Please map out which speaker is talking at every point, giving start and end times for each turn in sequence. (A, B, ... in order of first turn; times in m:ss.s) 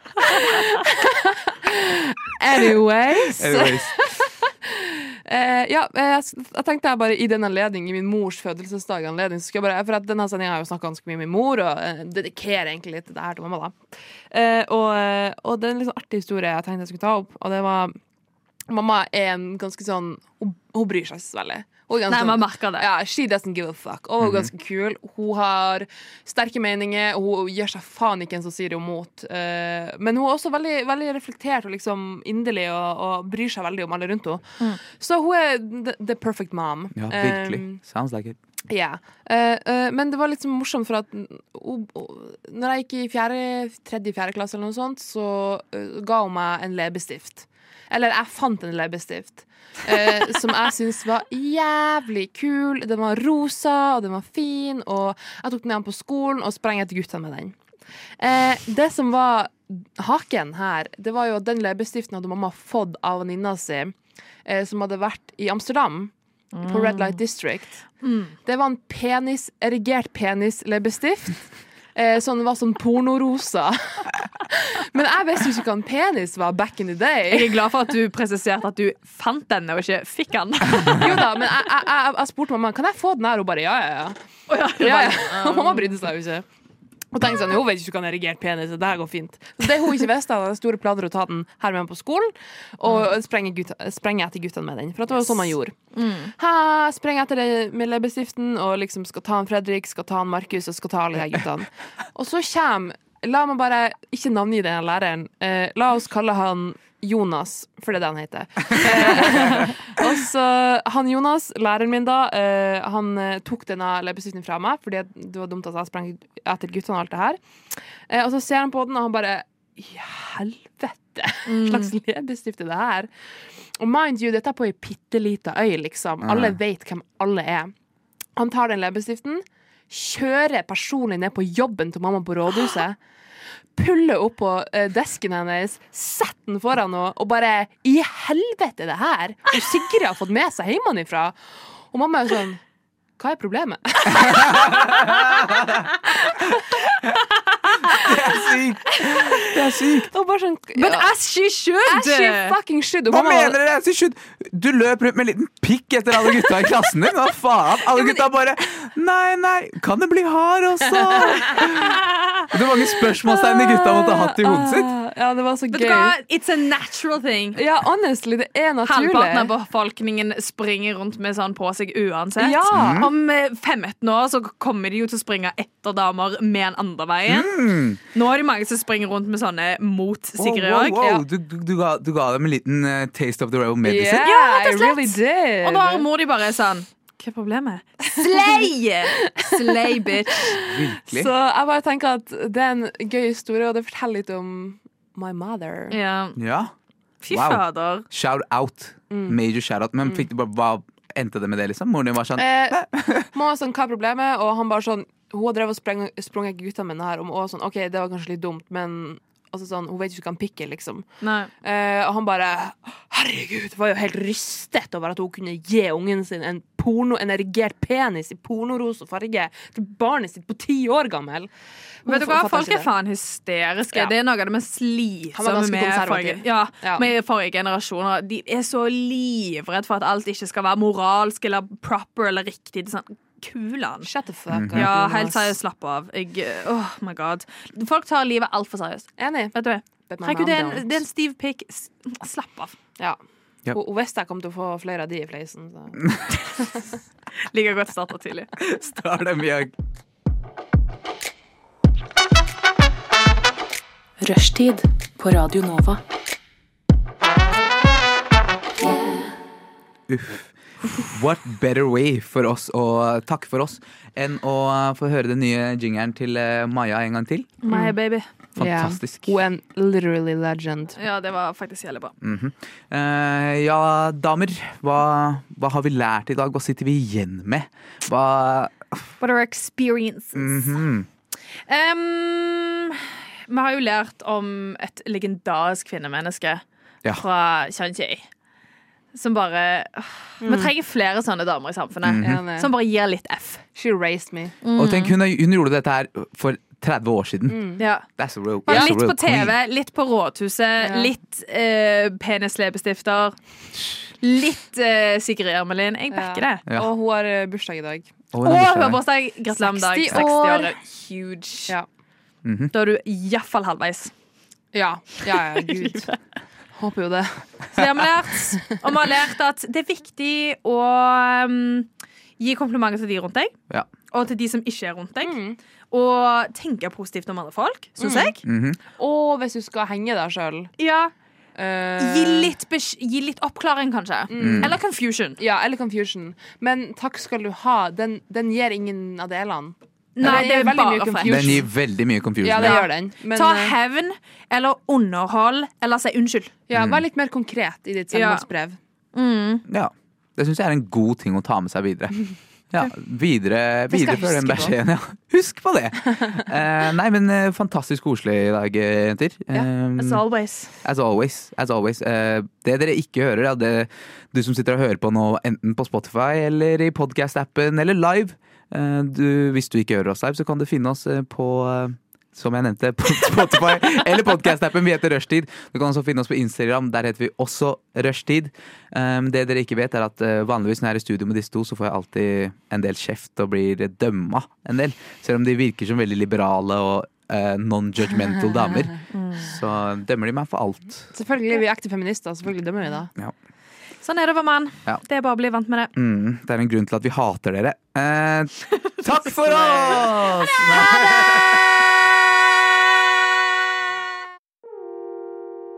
0:00.3-0:13.8 A
0:00.4-0:00.7 B
0:03.3-0:04.0 C
0:14.3-0:18.0 A
0:18.7-0:37.8 A
0:22.1-0:22.8 B
0:24.2-0:24.5 C
0:37.0-0:38.4 C
0:38.7-0:57.5 A
0:58.2-1:03.9 A
1:04.4-1:06.1 A
1:06.5-1:07.2 B
1:06.6-1:07.8 A
1:08.0-1:08.3 B
1:08.4-1:17.6 A
1:17.3-1:21.2 B
1:20.9-1:24.2 A
1:24.5-1:25.9 B
1:24.8-1:26.4 A
1:27.1-1:35.7 A
1:35.9-1:36.3 B
1:36.4-1:57.4 A
1:58.1-2:03.1 A
2:01.4-2:01.9 B
2:03.8-2:07.7 A
2:06.2-2:06.6 C
2:08.4-2:13.0 A
2:13.8-2:21.3 A
2:21.9-2:22.6 A
2:23.2-2:25.0 A
2:24.3-2:25.8 C
2:27.6-2:28.4 B
2:27.9-2:30.1 C
2:29.0-2:29.3 B
2:30.1-2:31.1 A
2:30.8-2:32.6 B
2:31.8-2:33.6 A
2:33.1-2:44.9 C
2:43.2-2:46.1 A
2:45.7-2:47.6 B
2:47.6-2:49.5 A
2:48.8-3:01.0 B
2:52.4-2:53.0 A
2:52.7-2:53.1 C
2:57.3-2:58.0 C
3:00.4-3:04.2 C
3:00.9-3:01.2 A
3:03.8-3:06.0 A
3:04.2-3:10.6 B
3:08.2-3:08.7 A
3:09.2-3:09.7 A
3:10.5-3:16.0 A
3:10.6-3:11.3 C
3:15.9-3:16.4 B
3:16.4-3:16.7 C
3:17.2-3:18.0 B
3:17.3-3:23.3 C
3:19.1-3:19.4 A
3:22.4-3:22.8 A
3:23.3-3:31.0 A
3:31.2-3:31.5 B
3:31.6-3:41.5 A
3:42.0-3:42.9 A
3:42.0-3:54.1 B
3:45.3-3:47.1 A
3:54.0-3:55.5 A
3:54.5-3:54.9 C
3:54.7-4:02.7 B
3:59.2-3:59.5 A
4:00.1-4:01.0 A
4:03.7-4:06.1 A
4:07.4-4:08.5 B
4:08.6-4:09.7 C
4:14.2-4:16.0 D
4:18.8-4:19.3 D
4:20.1-4:27.5 C
4:27.6-4:28.3 B
4:28.6-4:29.3 C
4:28.6-4:31.0 A
4:31.0-4:32.1 B
4:32.2-4:39.1 C
4:39.2-4:40.8 B
4:40.3-4:41.1 C
4:41.7-4:48.2 B
4:49.1-4:53.6 B
4:50.4-4:50.7 A
4:52.0-4:52.4 C
4:52.2-4:52.7 A
4:53.7-4:54.5 A
4:54.6-4:55.2 B
4:54.8-4:57.6 C
4:57.5-4:57.8 A
4:57.8-4:58.0 B
4:58.2-4:59.5 C
4:58.6-5:03.3 B
5:00.8-5:01.1 A
5:04.2-5:06.6 B
5:06.1-5:08.1 A
5:08.3-5:09.0 C
5:08.4-5:11.7 B
5:09.6-5:10.7 A
5:12.4-5:12.7 C
5:12.7-5:14.1 B
5:14.7-5:16.1 A
5:15.3-5:16.2 B
5:16.8-5:17.4 A
5:17.7-5:23.5 B
5:18.3-5:18.8 A
5:24.1-5:25.4 B
5:25.2-5:25.6 A
5:25.9-5:28.4 B
5:28.0-5:28.4 A
5:28.4-5:28.8 C
5:29.0-5:30.7 A
5:30.8-5:31.1 B
5:31.5-5:32.5 A
5:32.0-5:35.4 B
5:34.3-5:34.8 A
5:34.4-5:34.7 C
5:35.4-5:41.7 A
5:40.2-5:41.6 B
5:41.2-5:42.8 C
5:42.4-5:43.7 A
5:42.6-5:46.5 B
5:46.7-5:48.8 A
5:46.7-5:47.0 C
5:48.1-5:48.4 B
5:49.1-5:49.6 B
5:49.7-5:52.2 C
5:52.7-6:00.2 C
5:53.9-5:54.7 A
6:00.0-6:00.7 B
6:00.8-6:31.1 C
6:29.1-6:29.5 B
6:31.1-6:33.1 A
6:34.0-6:35.9 B
6:35.9-6:41.6 C
6:39.3-6:41.4 B